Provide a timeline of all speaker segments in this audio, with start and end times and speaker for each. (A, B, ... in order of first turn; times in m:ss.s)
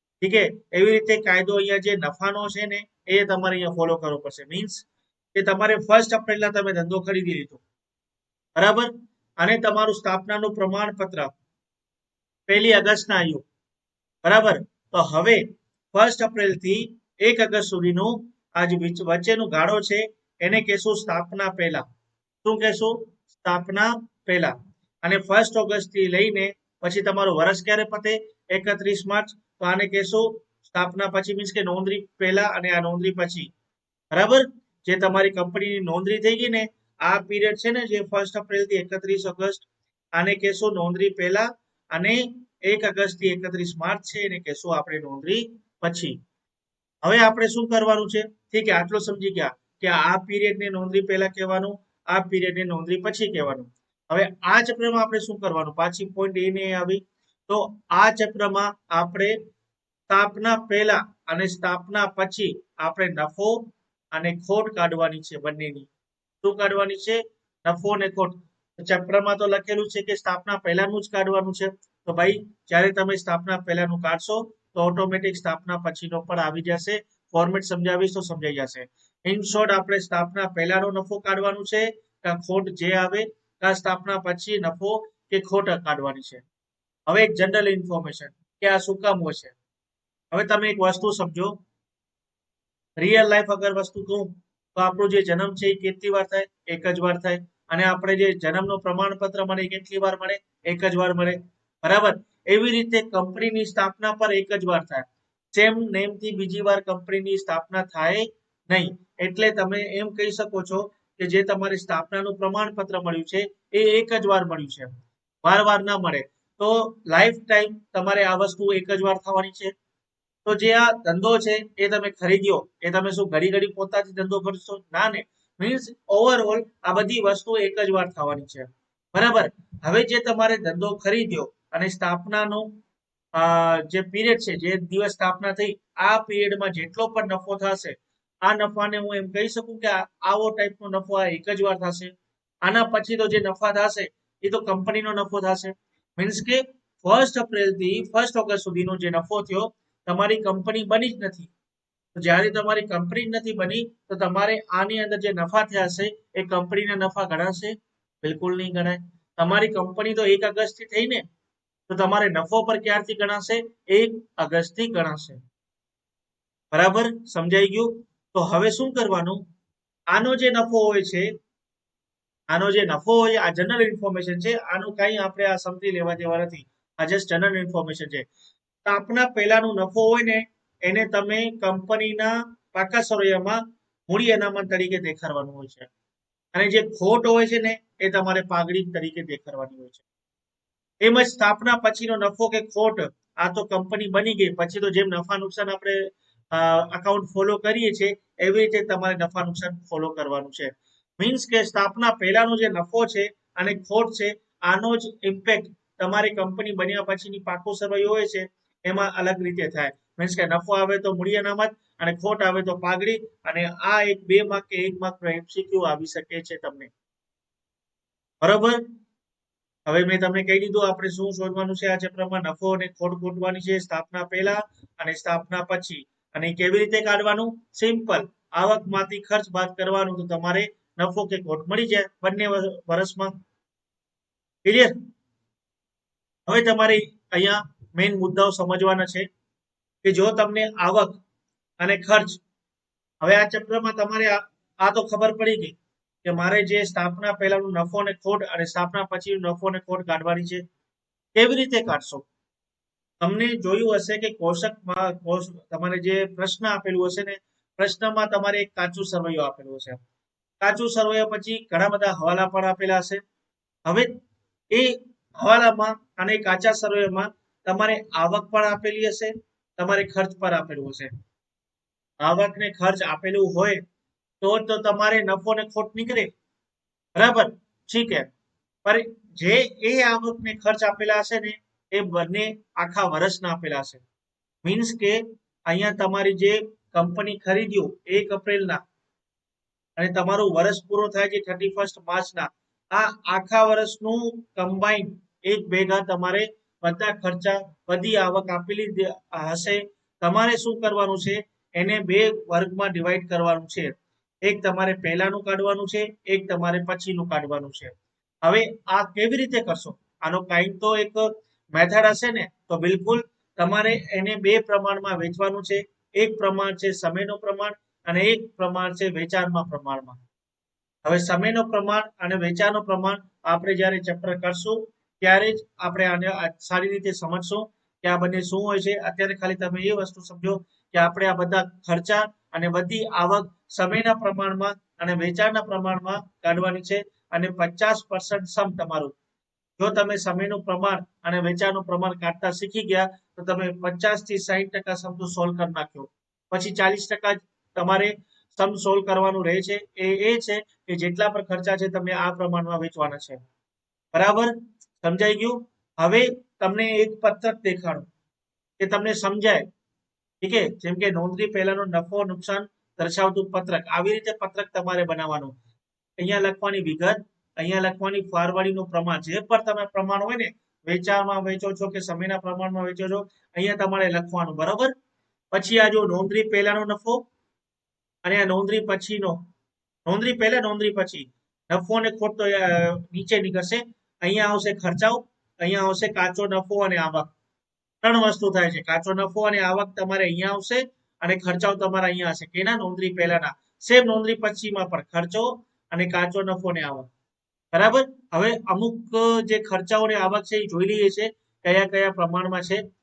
0:00.2-0:07.6 A
0:08.6-0:11.3 A
0:12.5-0:13.4 A
0:14.2-0:21.8 A
0:22.4-0:33.5 A
0:34.1-0:46.2 A
0:47.0-0:59.4 A
1:00.1-1:05.9 A
1:06.4-1:26.4 A
1:27.1-1:29.5 A
1:30.3-1:31.6 A
1:33.0-1:54.9 A
1:55.4-1:59.7 A
2:00.4-2:12.7 A
2:13.3-2:22.1 A
2:22.6-2:31.5 A
2:32.1-2:41.2 A
2:41.9-2:45.4 A
2:46.7-2:49.4 A
2:50.1-2:51.3 A
2:52.5-2:58.3 A
2:58.8-3:05.9 A
3:06.5-3:10.0 A
3:11.0-3:36.9 A
3:38.4-3:38.8 A
3:39.8-3:53.3 A
3:54.6-3:54.9 A
3:56.5-3:59.3 A
4:00.0-4:01.2 A
4:01.8-4:02.4 A
4:03.2-4:10.6 A
4:11.3-4:12.2 A
4:13.2-4:20.0 A
4:20.6-4:23.2 A
4:23.8-4:24.1 A
4:24.7-4:31.1 A
4:32.2-4:33.8 A
4:34.4-4:36.3 A
4:37.2-4:38.3 A
4:38.8-4:44.0 A
4:44.6-4:48.8 A
4:50.0-5:20.2 A
5:21.0-5:39.1 A
5:39.8-5:53.4 A
5:54.1-5:58.1 A
5:58.8-5:59.6 A
6:00.4-6:05.6 A
6:06.2-6:14.9 A
6:15.5-6:17.2 A
6:18.2-6:19.5 A
6:20.0-6:27.3 A
6:28.0-6:37.1 A
6:37.7-6:42.8 A